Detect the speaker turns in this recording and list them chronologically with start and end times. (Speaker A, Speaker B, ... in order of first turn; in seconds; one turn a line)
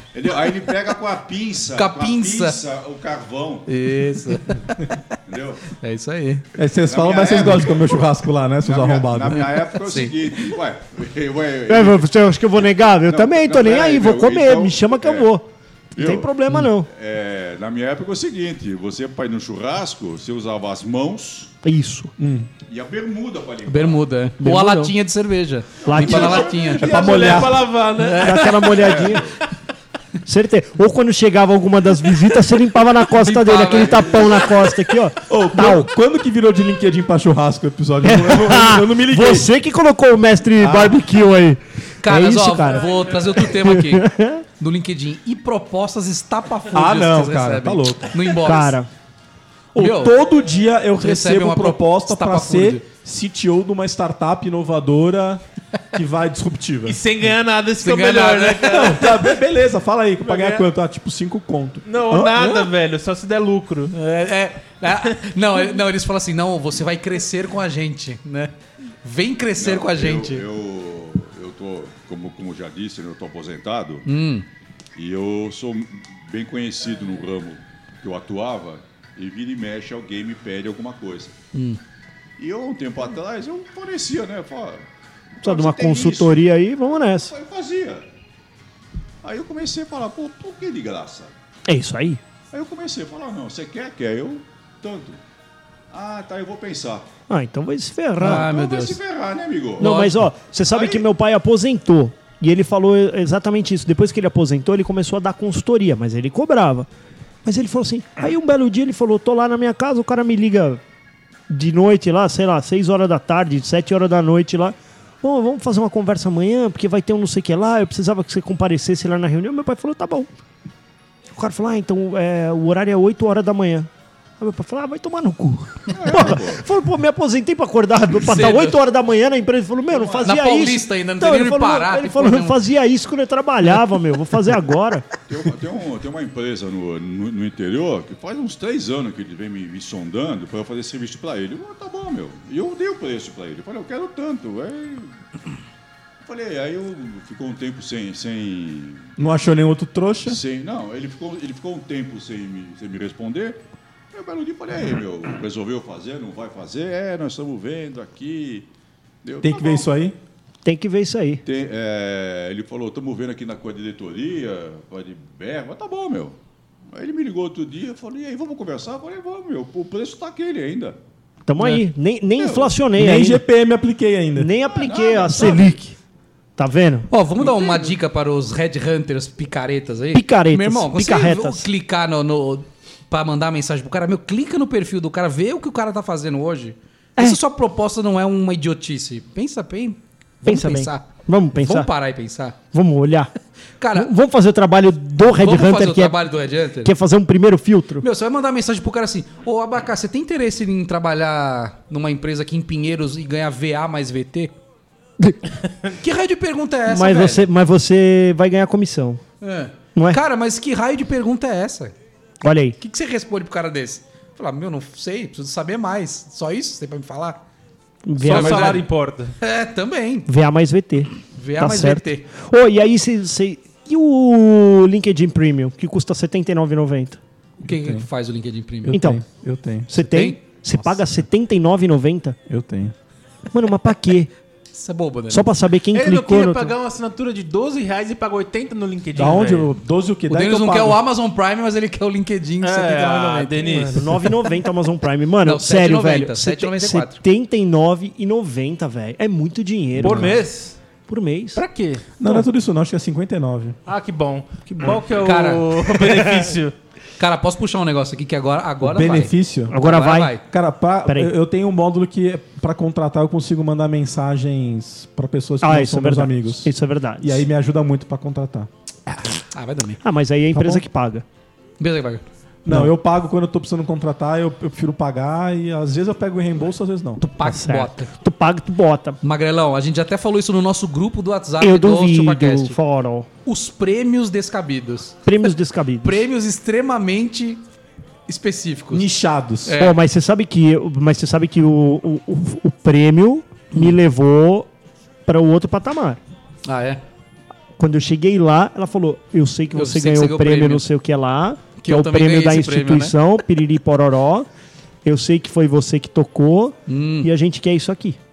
Speaker A: 0.1-3.7
Speaker B: 1.8-2.6
Speaker B: 3.7-4.8
Speaker A: 5.3-5.7
Speaker B: 5.7-6.4
Speaker C: 6.6-9.4
Speaker A: 6.9-8.1
Speaker A: 8.6-12.1
Speaker B: 9.3-10.4
Speaker D: 11.7-16.9
Speaker A: 13.0-15.3
Speaker A: 15.9-16.3
Speaker A: 16.8-21.5
Speaker D: 21.6-22.1
Speaker C: 22.2-22.5
Speaker A: 22.7-24.1
Speaker B: 23.7-27.4
Speaker D: 24.4-24.9
Speaker D: 25.9-26.5
Speaker A: 25.9-27.6
Speaker C: 26.3-27.8
Speaker E: 26.8-28.7
Speaker B: 28.0-28.9
Speaker D: 28.2-29.2
Speaker A: 28.7-29.4
Speaker D: 30.2-35.9
Speaker B: 33.1-34.5
Speaker A: 33.7-34.4
Speaker C: 35.3-39.5
Speaker D: 38.0-44.4
Speaker C: 40.6-41.0
Speaker B: 42.0-48.8
Speaker C: 46.7-48.2
Speaker D: 48.4-48.9
Speaker B: 49.8-50.2
Speaker C: 49.8-55.4
Speaker B: 51.0-52.8
Speaker C: 55.9-57.0
Speaker E: 56.9-59.2
Speaker B: 57.8-59.0
Speaker C: 58.7-62.6
Speaker E: 60.2-60.7
Speaker E: 61.9-64.0
Speaker B: 63.9-68.5
Speaker B: 69.0-70.5
Speaker A: 69.6-74.1
Speaker B: 74.0-74.5
Speaker A: 75.0-81.3
Speaker B: 81.5-81.8
Speaker A: 82.4-84.9
Speaker A: 85.4-88.1
Speaker D: 85.4-87.3
Speaker A: 89.2-91.3
Speaker D: 91.7-92.2
Speaker A: 92.5-95.2
Speaker A: 95.9-97.1
Speaker D: 97.3-98.5
Speaker B: 98.2-99.0
Speaker A: 98.2-99.9
Speaker B: 99.8-100.2
Speaker D: 99.8-106.9
Speaker A: 100.7-101.0
Speaker D: 107.5-110.8
Speaker D: 111.5-120.3
Speaker D: 121.3-123.9
Speaker D: 124.4-135.1
Speaker A: 125.9-126.6
Speaker B: 128.2-128.8
Speaker A: 129.9-130.3
Speaker B: 130.2-132.6
Speaker A: 135.3-145.1
Speaker A: 146.2-149.1
Speaker C: 149.2-150.4
Speaker A: 150.3-158.7
Speaker A: 159.2-159.9
Speaker C: 159.4-160.2
Speaker D: 160.7-161.4
Speaker A: 161.4-166.4
Speaker A: 166.9-171.0
Speaker D: 171.5-173.4
Speaker B: 171.6-171.8
Speaker A: 172.4-172.8
Speaker C: 173.0-174.5
Speaker D: 174.4-175.9
Speaker A: 174.7-175.8
Speaker D: 176.6-177.1
Speaker B: 177.1-192.6
Speaker A: 177.4-177.9
Speaker D: 180.1-181.7
Speaker D: 190.4-191.9
Speaker D: 192.7-193.3
Speaker B: 193.8-194.1
Speaker D: 193.9-196.2
Speaker B: 195.2-196.9
Speaker D: 196.8-198.1
Speaker B: 198.0-204.5
Speaker B: 206.0-207.5
Speaker D: 206.9-209.2
Speaker B: 209.4-211.9
Speaker D: 209.9-210.2
Speaker D: 212.4-212.8
Speaker B: 212.8-217.4
Speaker D: 218.1-218.8
Speaker E: 218.2-219.3
Speaker B: 218.2-218.8
Speaker B: 219.4-220.3
Speaker D: 220.3-227.2
Speaker B: 221.3-222.3
Speaker B: 227.6-229.0
Speaker C: 227.7-228.1
Speaker C: 228.9-229.9
Speaker D: 228.9-229.2
Speaker D: 229.9-232.4
Speaker B: 230.0-231.0
Speaker C: 232.5-232.9
Speaker D: 233.5-234.3
Speaker B: 234.7-235.5
Speaker D: 235.3-236.7
Speaker E: 235.9-239.7
Speaker C: 239.2-241.0
Speaker B: 240.3-243.9
Speaker E: 242.6-244.4
Speaker D: 243.8-250.4
Speaker B: 245.4-247.2
Speaker E: 250.0-250.8
Speaker C: 250.0-250.3
Speaker D: 251.1-251.6
Speaker E: 251.6-252.1
Speaker C: 252.2-253.8
Speaker E: 253.9-256.7
Speaker B: 255.1-256.2
Speaker B: 257.2-260.4
Speaker C: 258.8-259.7
Speaker D: 259.7-260.4
Speaker C: 260.5-268.7
Speaker D: 261.1-261.3
Speaker D: 265.6-267.4
Speaker B: 269.5-270.0
Speaker D: 270.0-271.2
Speaker C: 270.5-270.8
Speaker B: 271.8-272.2
Speaker C: 272.6-277.2
Speaker B: 277.2-278.1
Speaker D: 277.4-279.2
Speaker B: 279.2-282.8
Speaker D: 281.6-283.3
Speaker B: 283.5-285.2
Speaker D: 285.3-286.2
Speaker B: 286.0-287.6
Speaker B: 288.3-289.1
Speaker C: 288.9-289.8
Speaker B: 289.7-290.0
Speaker D: 289.8-294.7
Speaker D: 295.3-296.2
Speaker B: 296.6-297.0
Speaker D: 297.8-304.5
Speaker B: 299.8-300.9
Speaker B: 301.8-303.1
Speaker D: 305.0-308.2
Speaker B: 306.9-307.3